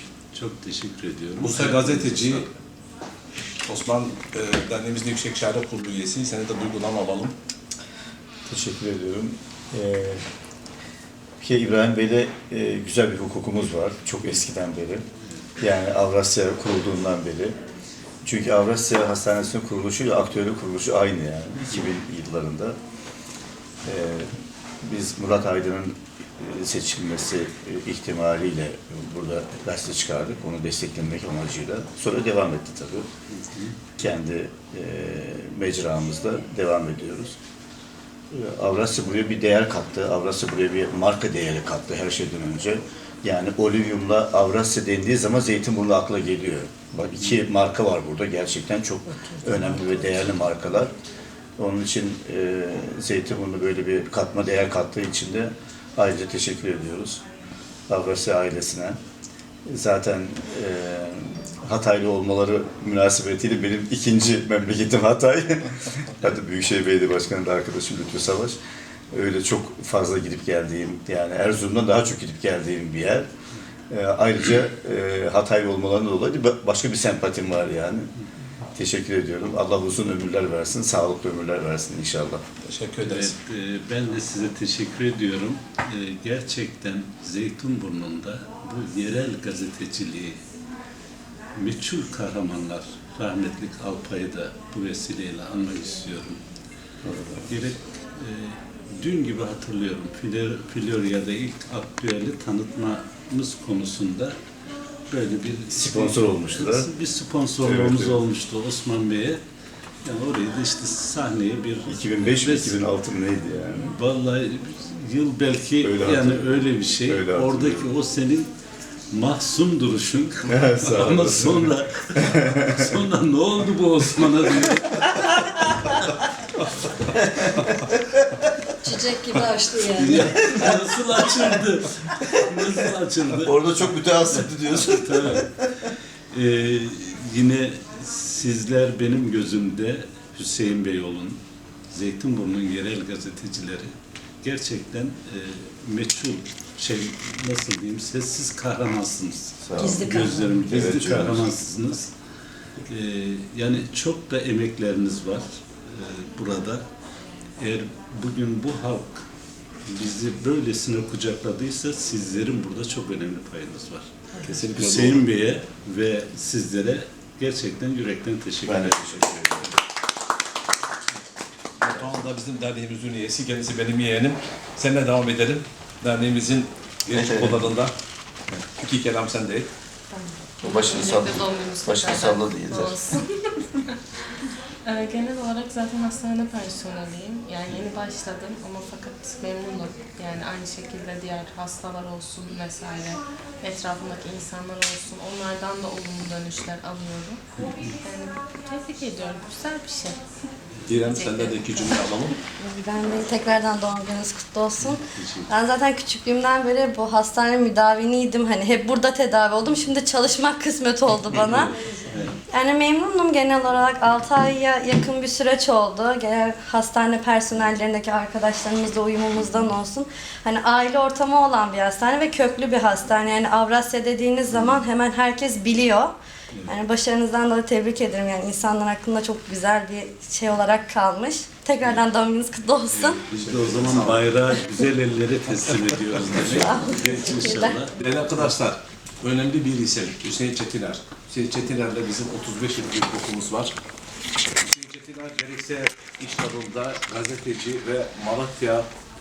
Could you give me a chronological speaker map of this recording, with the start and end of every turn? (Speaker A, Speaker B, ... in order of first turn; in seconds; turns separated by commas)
Speaker A: 0.3-2.5, Speaker B: 1.4-2.5, Speaker B: 3.7-7.3, Speaker C: 8.5-10.2, Speaker C: 11.4-15.0, Speaker C: 15.6-17.6, Speaker C: 18.2-22.8, Speaker C: 23.9-24.3, Speaker C: 24.8-33.1, Speaker A: 33.3-33.7, Speaker C: 34.0-37.4, Speaker C: 38.3-50.9, Speaker D: 49.1-50.1, Speaker C: 51.6-57.2, Speaker C: 57.9-59.0, Speaker C: 59.7-68.6, Speaker C: 69.1-73.3, Speaker C: 73.9-78.1, Speaker C: 78.8-82.4, Speaker B: 82.7-83.3, Speaker A: 83.0-90.4, Speaker A: 91.6-96.4, Speaker C: 97.0-97.4, Speaker A: 97.5-104.3, Speaker A: 105.1-109.4, Speaker C: 105.7-106.9, Speaker C: 107.6-108.2, Speaker A: 110.0-112.8, Speaker C: 111.8-113.9, Speaker A: 113.8-118.5, Speaker C: 115.8-117.9, Speaker A: 119.1-125.9, Speaker C: 120.5-122.7, Speaker C: 127.1-128.2, Speaker D: 128.8-130.4, Speaker A: 129.9-135.5, Speaker C: 133.4-135.7, Speaker A: 136.3-141.4, Speaker A: 141.9-143.9, Speaker A: 144.4-152.1, Speaker C: 149.6-151.5, Speaker D: 149.8-150.8, Speaker A: 152.9-156.8, Speaker A: 157.6-159.2, Speaker A: 159.9-164.1, Speaker B: 164.4-165.2, Speaker A: 164.7-169.3, Speaker C: 168.6-169.7, Speaker B: 171.8-177.9, Speaker C: 177.1-177.7, Speaker B: 178.8-179.7, Speaker E: 180.1-183.9, Speaker C: 180.6-183.0, Speaker E: 184.8-197.4, Speaker A: 197.6-197.9, Speaker E: 198.0-200.2, Speaker B: 200.9-202.4, Speaker E: 201.0-202.0, Speaker F: 202.6-211.7, Speaker A: 204.8-205.6, Speaker A: 211.5-212.3, Speaker D: 211.7-212.3, Speaker F: 212.5-226.1, Speaker A: 224.5-224.8, Speaker F: 226.6-233.2, Speaker A: 232.9-237.9, Speaker B: 233.3-234.2, Speaker F: 236.4-237.8, Speaker B: 238.0-243.7, Speaker B: 244.6-248.8